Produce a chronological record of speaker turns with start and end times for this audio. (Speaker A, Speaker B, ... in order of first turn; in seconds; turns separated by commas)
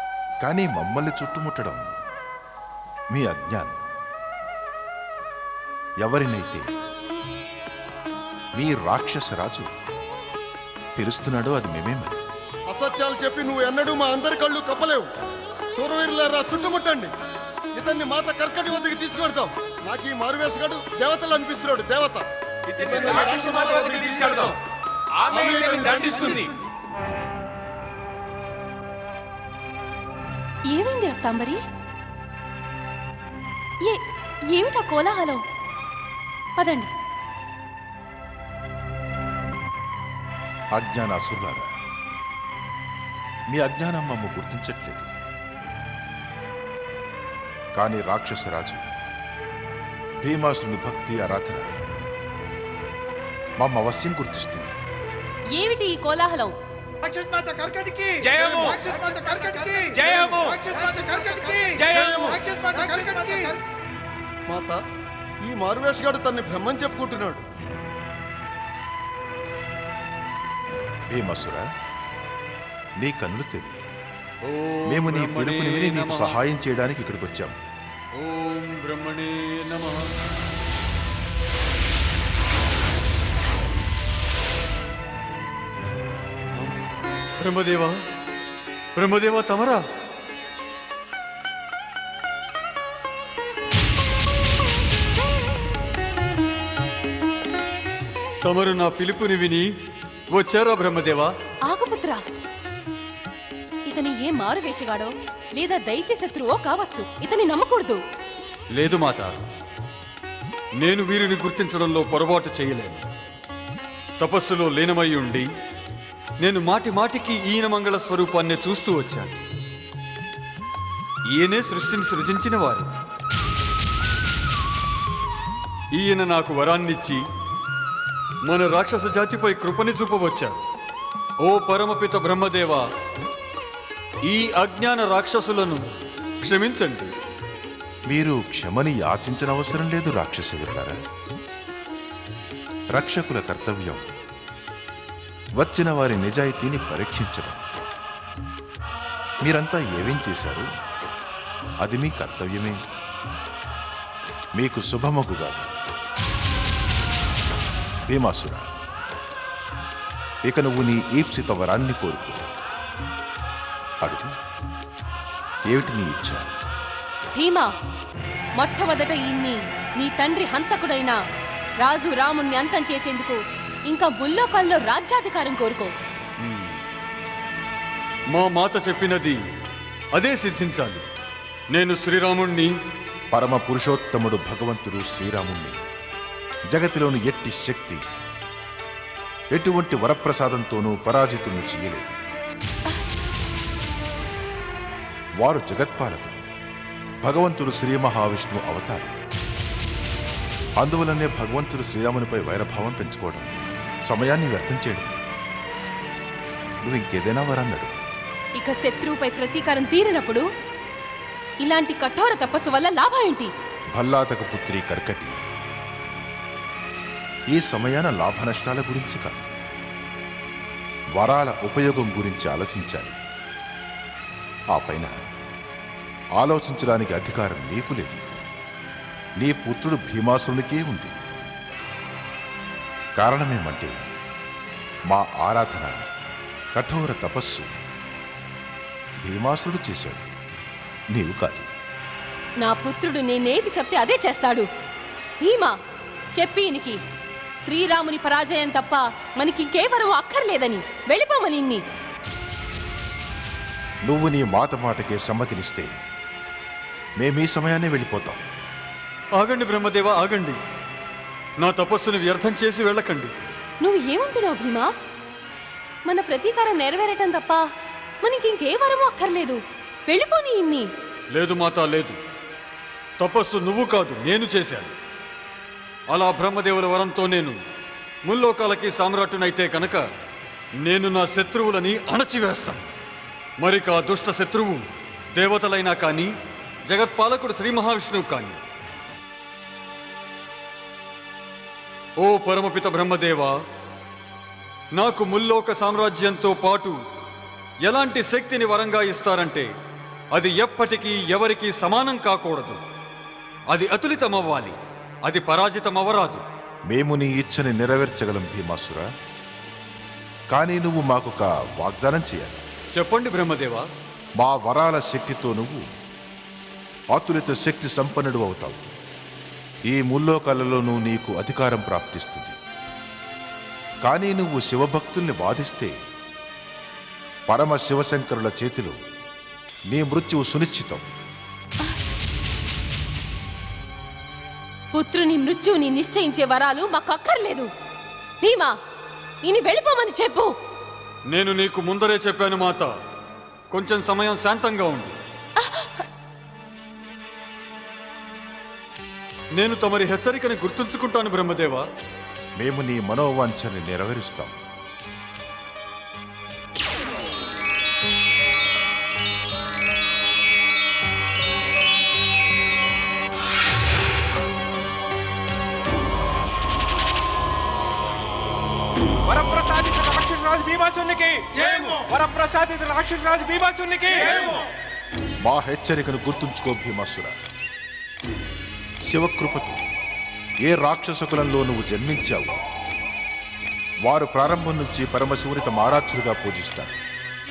Speaker A: 0.4-1.9, Speaker A: 3.1-3.7, Speaker A: 6.0-6.7, Speaker A: 8.6-9.7, Speaker A: 10.9-12.2, Speaker B: 12.7-15.1, Speaker B: 15.7-17.1, Speaker B: 17.7-22.2, Speaker C: 22.8-24.4, Speaker B: 22.8-24.6, Speaker C: 25.2-26.5, Speaker B: 25.3-26.5, Speaker D: 30.7-31.6, Speaker D: 33.8-35.4, Speaker D: 36.6-36.9, Speaker A: 40.7-41.7, Speaker A: 43.5-45.1, Speaker A: 47.7-48.8, Speaker A: 50.2-51.6, Speaker A: 53.6-54.8, Speaker D: 55.5-56.5, Speaker C: 57.1-63.5, Speaker B: 61.9-62.4, Speaker B: 64.5-64.8, Speaker B: 65.4-67.4, Speaker A: 71.1-71.6, Speaker A: 73.0-73.8, Speaker E: 74.4-76.4, Speaker A: 74.9-77.5, Speaker E: 78.2-80.1, Speaker E: 87.4-88.0, Speaker E: 89.0-89.8, Speaker E: 98.4-99.7, Speaker E: 100.3-101.3, Speaker D: 101.7-102.2, Speaker D: 103.8-108.0, Speaker E: 108.7-109.4, Speaker E: 110.8-113.0, Speaker E: 114.2-115.5, Speaker E: 116.4-119.4, Speaker E: 121.3-122.9, Speaker E: 126.0-127.2, Speaker E: 128.5-130.5, Speaker E: 131.4-132.8, Speaker E: 134.3-135.8, Speaker E: 136.4-137.1, Speaker A: 138.1-141.0, Speaker A: 142.9-144.0, Speaker A: 145.6-147.6, Speaker A: 149.4-150.7, Speaker A: 151.8-152.8, Speaker A: 154.6-155.8, Speaker A: 158.1-158.6, Speaker A: 160.4-162.5, Speaker A: 164.0-164.3, Speaker A: 165.7-166.4, Speaker D: 167.3-167.7, Speaker D: 168.6-171.2, Speaker D: 171.8-175.9, Speaker E: 176.4-176.8, Speaker E: 178.3-179.4, Speaker E: 180.2-181.0, Speaker E: 181.7-182.7, Speaker A: 183.3-185.8, Speaker A: 186.7-188.0, Speaker A: 189.5-192.2, Speaker A: 195.4-196.4, Speaker A: 197.2-199.2, Speaker A: 200.8-205.2, Speaker A: 206.8-207.9, Speaker D: 208.6-210.4, Speaker D: 211.6-213.5, Speaker A: 213.9-215.3, Speaker A: 217.5-219.5, Speaker A: 221.2-223.2, Speaker A: 224.7-225.1, Speaker A: 226.4-228.2, Speaker A: 229.4-231.1, Speaker A: 233.2-233.9, Speaker A: 235.1-235.9, Speaker A: 236.8-237.7, Speaker A: 239.2-240.2, Speaker A: 241.1-241.7, Speaker D: 242.6-244.7, Speaker D: 245.4-245.7, Speaker D: 246.3-247.0, Speaker D: 247.6-251.8, Speaker A: 254.1-255.9, Speaker A: 257.2-258.4, Speaker E: 259.4-260.6, Speaker E: 261.6-263.3, Speaker D: 263.8-264.9, Speaker D: 266.1-267.6, Speaker D: 268.2-270.9, Speaker E: 271.4-272.2, Speaker E: 273.2-274.9, Speaker E: 276.1-277.6, Speaker E: 278.2-280.1, Speaker E: 280.8-282.8, Speaker E: 283.6-286.3, Speaker E: 286.9-288.6, Speaker E: 292.2-293.5, Speaker E: 294.9-297.0, Speaker E: 297.8-299.7, Speaker E: 300.3-302.8, Speaker E: 303.7-306.4, Speaker A: 306.9-309.1, Speaker A: 310.5-312.6, Speaker E: 312.9-313.9, Speaker A: 314.4-315.8, Speaker A: 317.1-318.8, Speaker A: 319.9-322.6, Speaker A: 324.0-325.9, Speaker A: 327.5-328.9, Speaker A: 329.9-331.0, Speaker D: 334.9-337.7, Speaker D: 338.4-338.7, Speaker D: 339.4-340.5, Speaker E: 341.3-342.9, Speaker E: 343.7-345.1, Speaker D: 345.6-345.9, Speaker E: 349.6-351.8, Speaker A: 352.6-354.6, Speaker C: 369.3-374.6, Speaker A: 375.4-377.3, Speaker A: 379.1-379.8, Speaker A: 380.6-382.5, Speaker A: 384.0-387.0